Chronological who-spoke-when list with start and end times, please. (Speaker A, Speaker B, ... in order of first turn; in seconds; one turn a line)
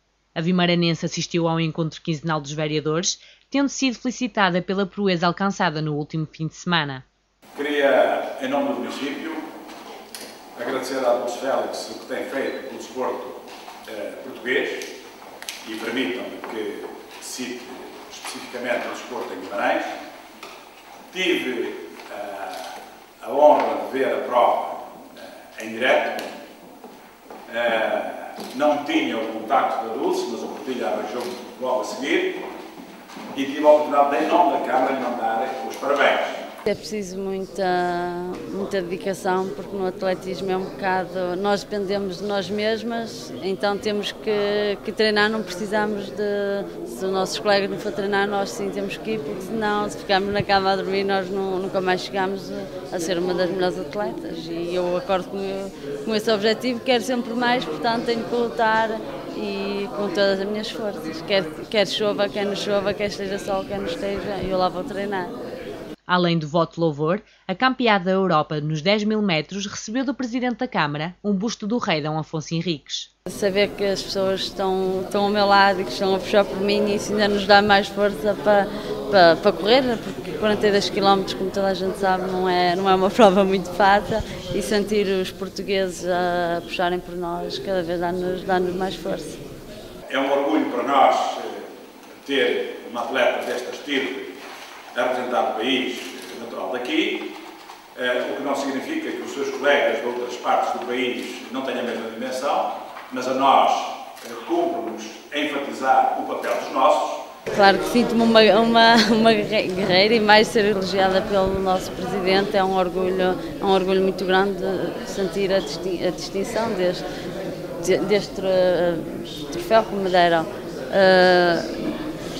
Speaker A: 0.3-7.0
Speaker B: 7.5-9.4
Speaker B: 10.6-14.9
Speaker B: 15.6-19.9
Speaker B: 21.1-26.3
Speaker B: 27.5-32.4
Speaker B: 33.3-36.4
Speaker C: 36.6-65.3
Speaker A: 66.1-73.1
Speaker C: 73.3-89.4
Speaker B: 90.1-91.7
Speaker B: 92.2-94.4
Speaker B: 94.9-97.3
Speaker B: 97.9-107.2
Speaker C: 107.5-117.0
Speaker C: 117.8-121.7